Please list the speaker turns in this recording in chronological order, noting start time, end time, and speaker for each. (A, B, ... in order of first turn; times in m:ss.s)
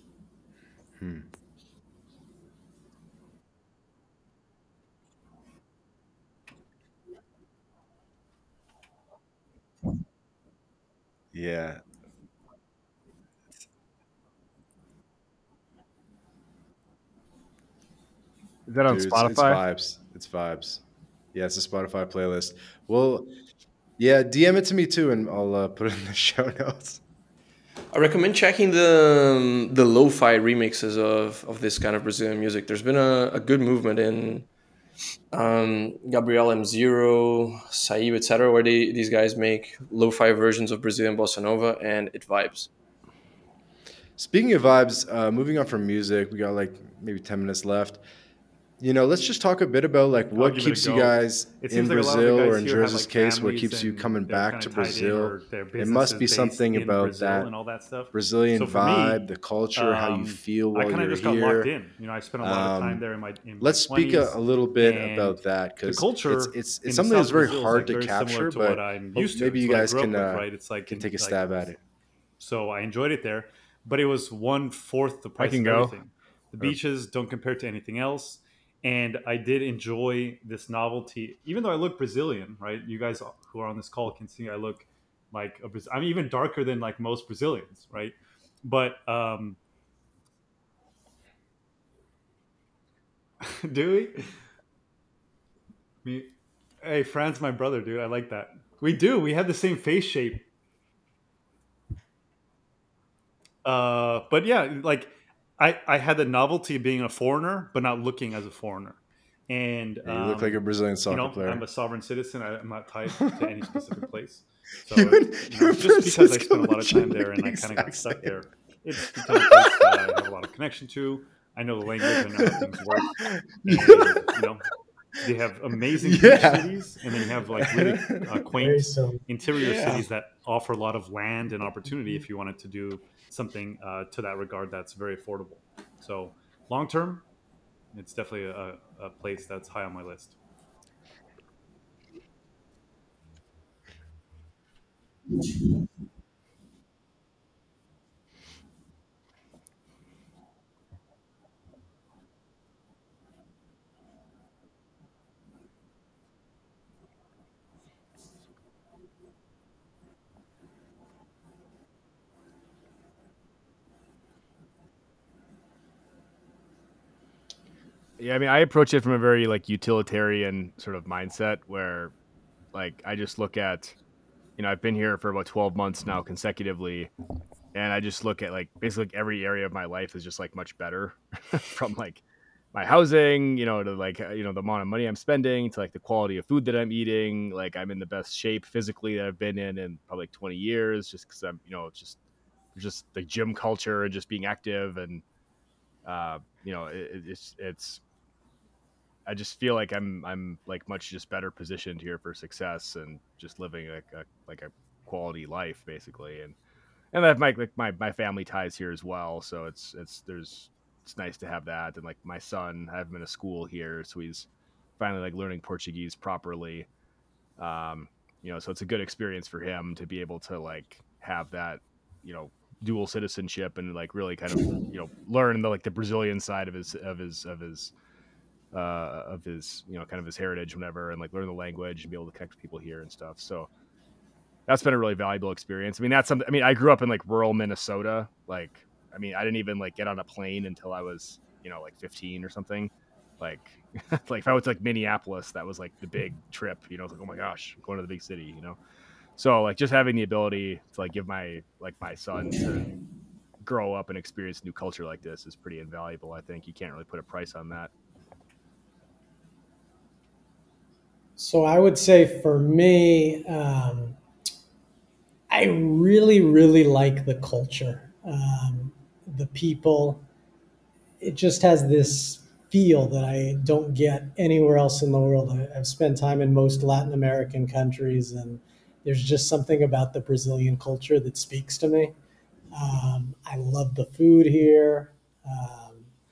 0:01.0-0:01.2 A
0:11.3-0:11.8 A
0:18.7-0:19.6 B
0:18.9-0:20.8 A
0:21.3-0:23.3 A
0:24.0-0:27.0 A
0:27.9-0:34.5 C
0:35.3-0:42.7 C
0:44.2-0:48.0 A
0:48.8-0:57.5 A
0:50.3-1:11.7 D
0:58.1-1:01.7 A
1:02.4-1:03.0 A
1:03.6-1:11.8 A
1:12.4-1:29.6 D
1:15.4-1:16.0 B
1:33.4-1:34.3 D
1:36.0-1:36.3 D
1:36.8-1:40.5 D
1:43.6-2:03.1 D
1:50.0-1:51.7 A
1:53.1-1:53.7 A
1:54.9-1:58.4 A
1:59.0-2:00.0 A
2:02.0-2:04.1 A
2:03.6-2:04.6 D
2:05.2-2:17.2 D
2:06.0-2:06.8 A
2:07.6-2:08.3 A
2:08.6-2:09.2 E
2:09.6-2:10.0 A
2:17.9-2:20.4 D
2:48.2-2:52.1 B
2:52.7-2:54.0 B
2:54.6-2:57.1 B
2:57.7-3:02.2 B
3:02.7-3:12.2 B
3:12.8-3:15.2 B
3:16.0-3:18.0 B
3:19.3-3:26.6 B
3:27.1-3:36.9 B
3:37.6-3:47.9 B
3:48.7-3:53.7 B
3:54.7-4:08.8 B
4:09.4-4:12.9 B
4:13.6-4:17.9 B
4:21.4-4:24.2 E
4:25.5-4:30.2 E
4:31.2-4:42.2 E
4:42.7-4:46.1 E